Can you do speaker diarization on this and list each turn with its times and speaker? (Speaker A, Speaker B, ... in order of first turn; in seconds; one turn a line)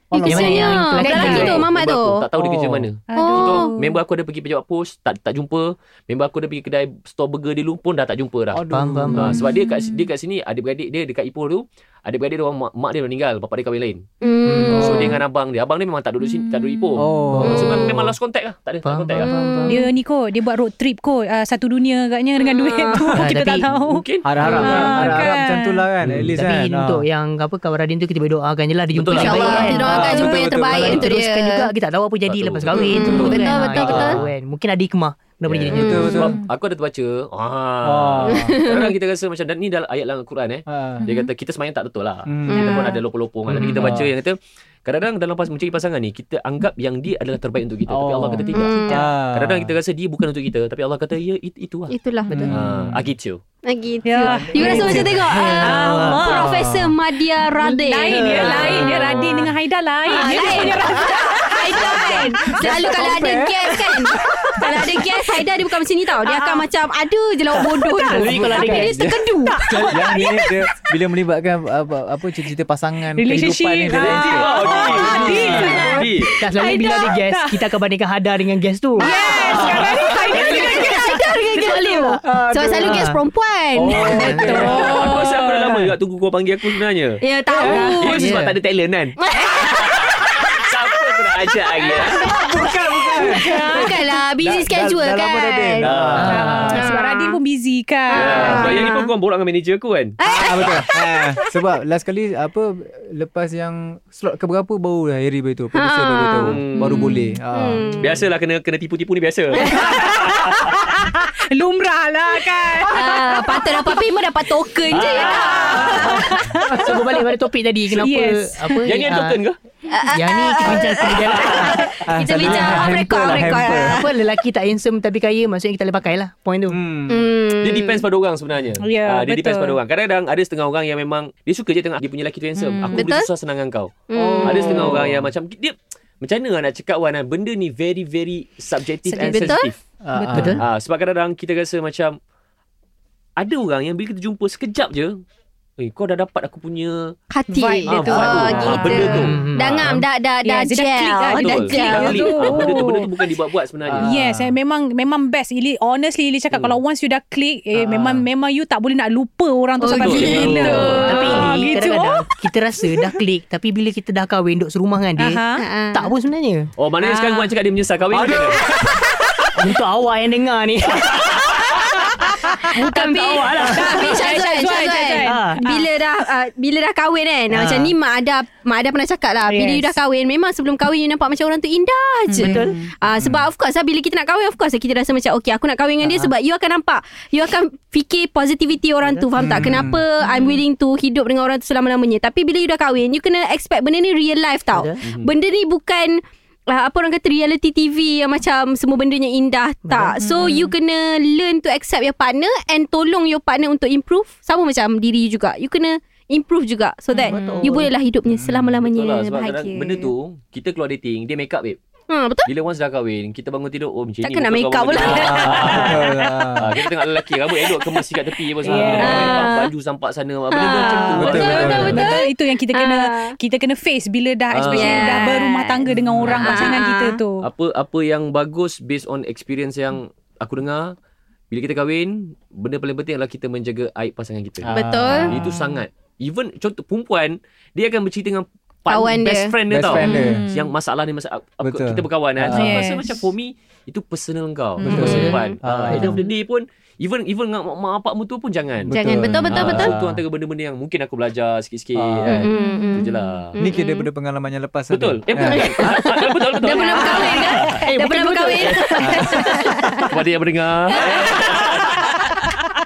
Speaker A: 0.1-0.8
Speaker B: 0.2-2.2
Speaker C: 0.2-1.7
Speaker D: 1.1-1.6
Speaker E: 1.1-14.1
Speaker A: 2.4-2.9
Speaker D: 3.1-3.9
Speaker B: 3.1-3.8
Speaker A: 8.5-9.4
Speaker C: 8.7-9.4
Speaker B: 14.2-15.2
Speaker C: 14.5-15.2
Speaker E: 14.8-19.3
Speaker A: 17.0-17.9
Speaker C: 17.3-18.1
Speaker C: 18.9-19.8
Speaker B: 19.2-19.9
Speaker D: 19.7-25.9
Speaker B: 22.4-23.1
Speaker C: 23.1-23.7
Speaker E: 23.7-25.3
Speaker A: 24.2-27.0
Speaker E: 26.0-26.3
Speaker C: 26.3-36.3
Speaker E: 28.9-29.8
Speaker B: 29.1-31.7
Speaker D: 29.5-30.1
Speaker A: 29.8-31.1
Speaker E: 32.2-34.3
Speaker B: 32.7-34.2
Speaker E: 35.5-51.9
Speaker A: 35.7-36.4
Speaker A: 37.8-38.6
Speaker B: 38.3-38.9
Speaker A: 40.7-41.0
Speaker D: 41.0-41.3
Speaker A: 42.3-42.8
Speaker B: 42.5-43.0
Speaker A: 43.5-44.1
Speaker A: 47.9-49.8
Speaker B: 48.5-49.0
Speaker D: 48.6-49.1
Speaker B: 51.9-52.4
Speaker C: 52.3-52.6
Speaker A: 52.3-53.1
Speaker E: 52.5-53.4
Speaker B: 53.6-58.6
Speaker D: 54.0-56.6
Speaker A: 54.2-57.0
Speaker C: 54.6-56.3
Speaker D: 57.6-65.4
Speaker C: 58.1-58.8
Speaker A: 58.3-59.5
Speaker E: 58.3-59.1
Speaker B: 60.1-69.9
Speaker E: 60.4-61.0
Speaker A: 61.8-64.6
Speaker D: 66.2-66.7
Speaker D: 67.9-68.2
Speaker A: 68.1-76.3
Speaker C: 68.1-69.0
Speaker D: 69.4-70.6
Speaker C: 69.7-70.2
Speaker D: 73.1-77.7
Speaker E: 73.9-76.3
Speaker C: 75.4-75.7
Speaker C: 76.4-79.8
Speaker D: 79.0-81.4
Speaker B: 79.0-85.0
Speaker E: 79.5-80.9
Speaker C: 80.3-82.2
Speaker A: 82.2-83.1
Speaker C: 82.8-83.2
Speaker A: 83.8-85.9
Speaker E: 83.8-92.3
Speaker D: 84.1-85.3
Speaker C: 84.1-84.7
Speaker B: 87.2-88.3
Speaker A: 87.5-87.9
Speaker C: 88.1-88.5
Speaker B: 89.2-90.1
Speaker B: 91.7-95.9
Speaker A: 92.3-96.9
Speaker D: 93.4-93.9
Speaker E: 95.8-96.7
Speaker C: 96.2-96.7
Speaker D: 96.3-98.8
Speaker B: 96.7-97.4
Speaker B: 98.1-99.1
Speaker E: 98.1-100.8
Speaker B: 100.2-101.6
Speaker A: 100.3-108.2
Speaker B: 105.7-108.2
Speaker E: 106.4-107.1
Speaker E: 108.0-110.9
Speaker D: 109.7-114.0
Speaker B: 112.9-116.4
Speaker E: 114.9-116.3
Speaker D: 115.0-117.3
Speaker C: 115.9-119.4
Speaker D: 118.0-118.9
Speaker E: 118.8-119.6
Speaker B: 119.9-124.0
Speaker C: 120.1-126.8
Speaker E: 121.3-121.7
Speaker A: 121.5-124.1
Speaker A: 126.7-127.3
Speaker B: 127.1-128.0
Speaker E: 127.6-139.8
Speaker D: 128.8-129.8
Speaker D: 132.6-133.0
Speaker B: 132.9-133.3
Speaker B: 134.1-134.9
Speaker A: 134.1-135.3
Speaker B: 139.1-139.7
Speaker A: 140.0-140.6
Speaker D: 140.2-140.6
Speaker C: 140.3-140.6
Speaker E: 140.4-142.2
Speaker E: 143.4-145.2
Speaker E: 145.8-147.1
Speaker B: 147.3-152.8
Speaker D: 147.5-149.4
Speaker E: 147.9-149.7
Speaker C: 149.1-149.8
Speaker D: 150.4-153.2
Speaker E: 151.3-154.1
Speaker A: 154.0-154.5
Speaker D: 154.0-163.1
Speaker E: 156.5-156.8
Speaker C: 157.8-158.2
Speaker B: 159.8-161.6
Speaker E: 159.9-161.5
Speaker C: 161.0-166.7
Speaker D: 165.2-165.7
Speaker B: 165.6-166.1
Speaker E: 166.8-168.6
Speaker D: 167.0-167.5
Speaker A: 168.1-169.1
Speaker D: 168.6-169.5
Speaker C: 169.6-172.1
Speaker E: 171.1-171.4
Speaker C: 172.7-174.2
Speaker B: 172.7-210.1
Speaker D: 173.7-175.8
Speaker C: 175.2-175.6
Speaker D: 179.5-180.0
Speaker D: 182.3-182.8
Speaker A: 182.4-183.5
Speaker C: 189.0-189.7
Speaker A: 189.4-190.0
Speaker C: 194.7-195.0
Speaker E: 195.0-195.3
Speaker C: 199.9-200.2
Speaker D: 200.2-200.7
Speaker D: 207.2-207.6
Speaker C: 207.2-207.9
Speaker A: 208.3-208.8
Speaker E: 208.9-211.8
Speaker B: 212.1-212.5
Speaker E: 212.5-222.1
Speaker B: 214.2-216.5
Speaker A: 215.1-216.6
Speaker B: 217.5-218.1
Speaker D: 218.7-219.5
Speaker A: 218.7-219.3
Speaker B: 218.8-219.7
Speaker B: 220.5-223.4
Speaker A: 221.2-222.1
Speaker D: 221.2-227.5
Speaker E: 224.5-225.3
Speaker B: 224.7-227.2
Speaker A: 226.0-226.3
Speaker E: 227.4-230.9
Speaker E: 231.5-234.7
Speaker A: 234.6-235.6
Speaker B: 234.7-235.3
Speaker E: 235.3-248.9
Speaker B: 238.9-240.3
Speaker A: 239.7-240.4
Speaker D: 240.0-240.6
Speaker A: 241.6-242.9
Speaker D: 242.5-243.2
Speaker D: 244.8-245.2
Speaker A: 244.8-246.2
Speaker C: 244.9-245.4
Speaker B: 245.1-245.5
Speaker C: 245.9-246.2
Speaker A: 248.8-250.2
Speaker B: 248.9-249.9
Speaker E: 249.5-253.6
Speaker A: 251.9-252.5
Speaker B: 252.3-254.1
Speaker D: 252.6-253.0
Speaker A: 253.6-256.3
Speaker E: 254.9-257.8
Speaker C: 255.4-256.0
Speaker B: 256.6-260.1
Speaker A: 257.0-257.4
Speaker C: 257.0-259.7
Speaker A: 259.0-259.3
Speaker D: 259.4-260.1
Speaker E: 260.1-262.3
Speaker B: 260.9-261.6